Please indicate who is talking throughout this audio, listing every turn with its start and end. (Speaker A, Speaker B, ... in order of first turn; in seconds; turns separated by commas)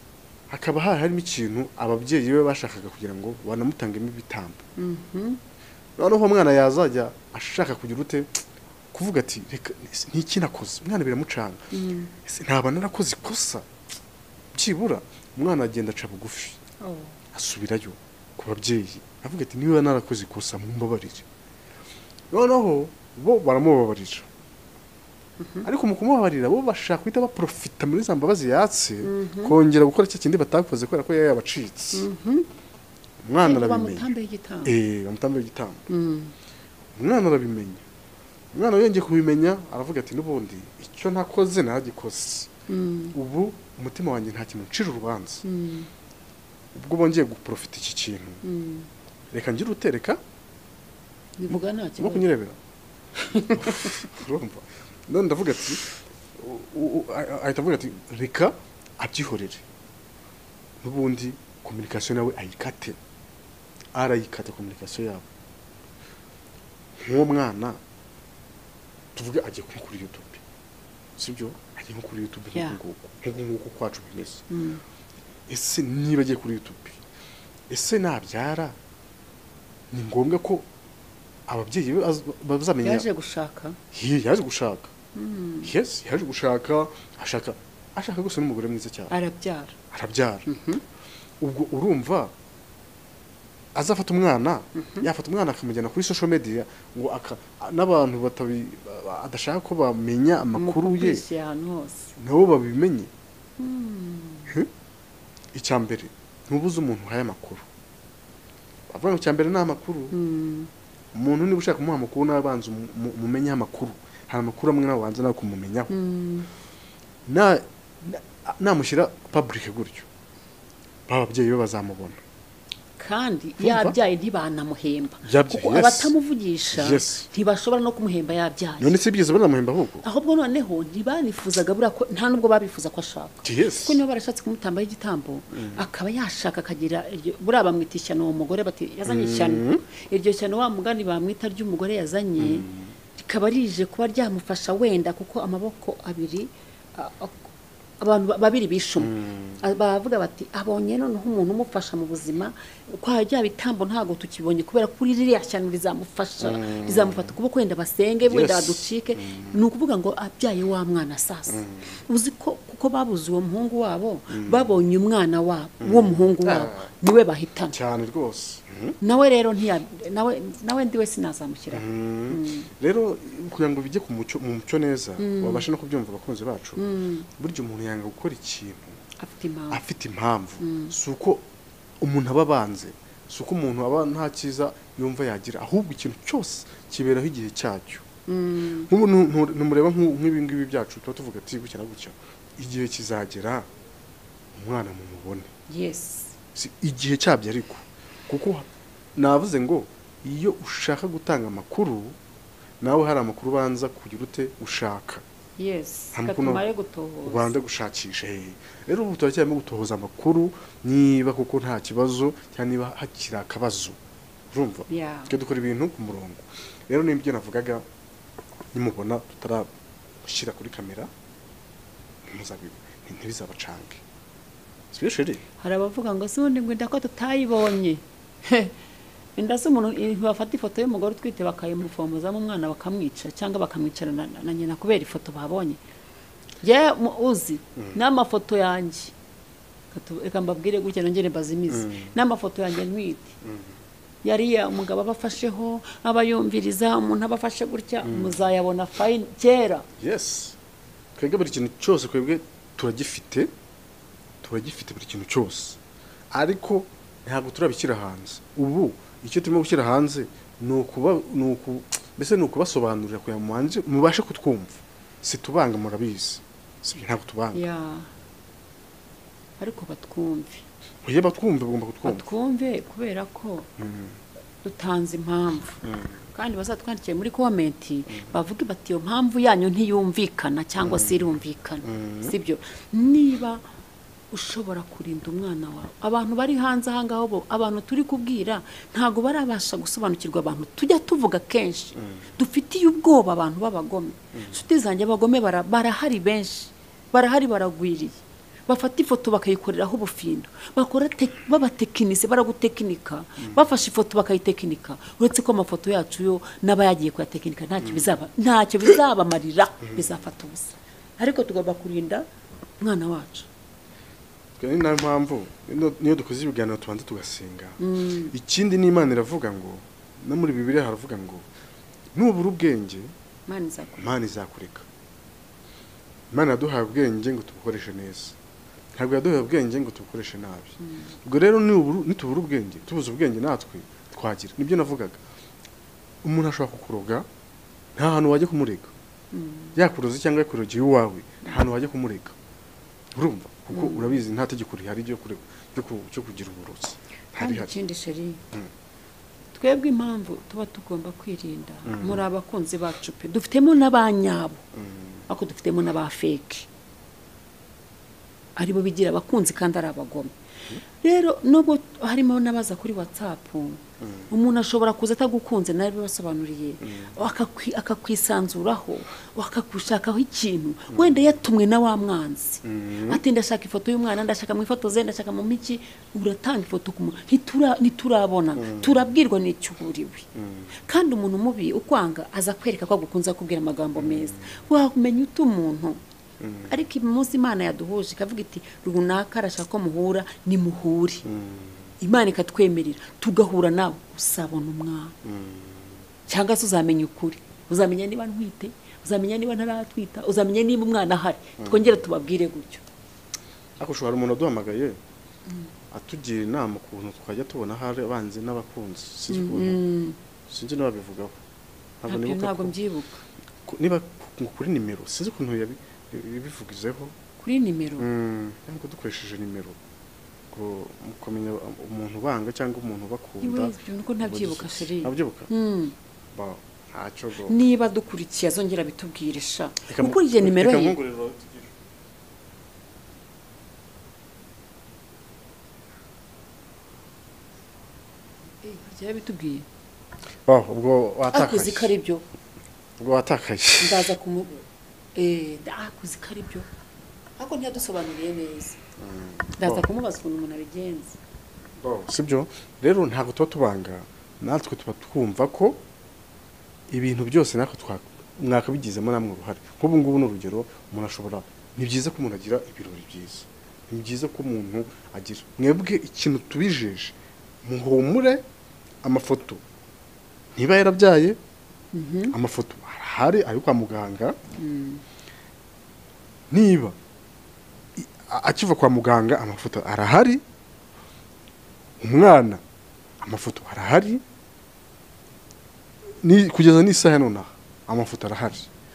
Speaker A: 0.5-4.6, Speaker B: 4.8-5.4, Speaker A: 6.0-8.3, Speaker A: 8.9-11.7, Speaker B: 11.7-12.1, Speaker A: 12.2-13.7, Speaker A: 14.5-16.6, Speaker B: 16.8-17.2, Speaker A: 17.3-21.2, Speaker A: 22.3-24.3, Speaker B: 25.4-25.7, Speaker A: 25.6-32.1, Speaker B: 29.0-29.6, Speaker B: 31.9-32.5, Speaker A: 33.2-34.1, Speaker B: 33.4-34.8, Speaker A: 34.6-35.9, Speaker B: 35.9-36.3, Speaker A: 37.0-37.8, Speaker A: 38.5-42.5, Speaker B: 42.7-43.2, Speaker A: 43.1-45.4, Speaker B: 45.4-45.9, Speaker A: 46.7-48.4, Speaker B: 48.4-48.9, Speaker A: 49.3-50.2, Speaker B: 51.4-52.3, Speaker A: 51.5-52.6, Speaker B: 53.3-54.1, Speaker A: 53.5-59.6, Speaker A: 60.8-63.0, Speaker A: 63.9-65.3, Speaker A: 67.0-67.8, Speaker A: 69.2-70.4, Speaker A: 71.2-74.5, Speaker B: 72.5-72.8, Speaker B: 74.5-74.8, Speaker A: 75.5-77.0, Speaker A: 77.7-78.8, Speaker A: 79.9-80.7, Speaker A: 81.5-83.1, Speaker B: 82.8-83.8, Speaker A: 83.9-84.9, Speaker B: 85.2-85.7, Speaker A: 85.7-89.1, Speaker B: 89.1-89.8, Speaker A: 89.9-90.5, Speaker B: 90.5-90.8, Speaker A: 91.4-92.3, Speaker A: 93.8-101.2, Speaker B: 94.8-95.1, Speaker B: 100.5-102.1, Speaker A: 102.2-103.1, Speaker B: 103.6-104.6, Speaker A: 105.5-107.7, Speaker A: 108.9-110.1, Speaker B: 110.1-110.7, Speaker A: 111.1-115.9, Speaker B: 115.9-116.5, Speaker A: 117.3-120.1, Speaker A: 121.1-122.2, Speaker B: 123.0-129.0, Speaker A: 123.6-124.0, Speaker A: 125.2-126.1, Speaker A: 126.7-127.2, Speaker A: 128.8-130.1, Speaker B: 130.0-167.8, Speaker A: 133.4-134.0, Speaker A: 135.5-135.9, Speaker A: 139.1-139.8, Speaker A: 142.4-142.9, Speaker A: 149.0-149.6, Speaker A: 156.4-157.3, Speaker A: 158.2-159.6, Speaker A: 161.5-162.0, Speaker A: 164.3-164.8, Speaker A: 165.8-166.8, Speaker A: 167.7-169.0, Speaker B: 169.0-172.7, Speaker A: 171.7-179.0, Speaker B: 175.2-175.7, Speaker B: 176.8-177.3, Speaker B: 179.2-179.8, Speaker A: 179.7-181.4, Speaker B: 180.6-180.9, Speaker A: 182.0-188.1, Speaker B: 188.3-188.9, Speaker A: 188.9-193.7, Speaker A: 194.5-195.5, Speaker B: 195.7-196.4, Speaker A: 196.6-202.2, Speaker A: 202.8-205.2, Speaker B: 205.6-207.6, Speaker A: 206.1-206.6, Speaker A: 207.2-214.0, Speaker A: 214.5-217.8, Speaker B: 214.9-215.3, Speaker A: 218.7-219.7, Speaker A: 220.2-221.1, Speaker A: 222.2-224.0, Speaker A: 224.9-225.4, Speaker B: 225.6-228.8, Speaker B: 229.4-235.8, Speaker B: 236.6-239.1, Speaker B: 239.9-243.3, Speaker A: 241.7-242.2, Speaker A: 243.4-243.8, Speaker B: 244.2-249.9, Speaker A: 248.0-248.4, Speaker A: 250.0-250.6, Speaker A: 251.2-253.5, Speaker A: 254.4-255.8, Speaker A: 256.3-267.6, Speaker B: 267.5-268.1, Speaker B: 269.6-270.6, Speaker A: 271.0-272.3, Speaker B: 272.1-273.7, Speaker A: 273.8-274.2, Speaker B: 274.6-275.8, Speaker A: 275.8-276.2, Speaker B: 276.3-283.7, Speaker A: 280.8-281.3, Speaker A: 281.8-282.4, Speaker B: 284.3-312.3, Speaker A: 292.0-292.3, Speaker A: 307.8-308.2, Speaker A: 309.9-310.2, Speaker B: 312.8-313.5, Speaker A: 314.6-321.5, Speaker B: 317.8-318.3, Speaker A: 322.1-323.1, Speaker B: 323.5-324.1, Speaker A: 324.0-324.9, Speaker A: 326.3-328.4, Speaker A: 328.9-335.2, Speaker B: 330.8-331.2, Speaker A: 336.2-337.3, Speaker A: 338.0-338.9, Speaker B: 339.3-339.8, Speaker A: 339.8-342.4, Speaker A: 343.1-347.7, Speaker B: 343.7-344.2, Speaker B: 347.4-348.4, Speaker B: 349.6-354.6, Speaker A: 351.9-352.2, Speaker A: 354.8-355.2, Speaker B: 355.3-356.7, Speaker B: 358.6-360.4, Speaker B: 361.0-386.0, Speaker A: 364.0-364.3, Speaker A: 366.8-367.2, Speaker A: 370.9-371.2, Speaker A: 372.6-373.2, Speaker A: 378.6-379.1, Speaker A: 380.4-380.7, Speaker A: 384.0-384.5, Speaker A: 386.4-386.8, Speaker B: 386.7-391.3, Speaker A: 391.2-391.9, Speaker B: 392.0-395.2, Speaker A: 395.2-396.0, Speaker B: 396.3-402.9, Speaker A: 401.6-402.0, Speaker A: 403.8-405.0, Speaker A: 405.9-409.8, Speaker B: 409.3-410.2, Speaker A: 410.5-411.4, Speaker A: 412.0-412.8, Speaker B: 412.1-413.2, Speaker A: 413.7-417.2, Speaker B: 417.4-418.1, Speaker A: 418.0-419.8, Speaker A: 420.5-425.5, Speaker B: 423.4-425.9, Speaker A: 426.3-427.6, Speaker B: 427.4-431.0, Speaker A: 429.9-431.7, Speaker B: 438.6-439.7, Speaker A: 440.5-441.9, Speaker B: 441.3-442.2, Speaker A: 443.0-444.1, Speaker B: 443.8-446.7, Speaker B: 447.4-448.8, Speaker A: 449.0-449.9, Speaker B: 449.6-451.2, Speaker A: 451.8-455.8, Speaker A: 456.9-468.4, Speaker A: 469.0-469.6, Speaker A: 470.6-471.4, Speaker B: 471.9-472.4, Speaker A: 472.3-474.4, Speaker B: 474.6-475.0, Speaker A: 476.5-477.0, Speaker A: 478.0-480.4, Speaker A: 482.0-482.6, Speaker A: 483.2-484.2, Speaker A: 486.2-488.7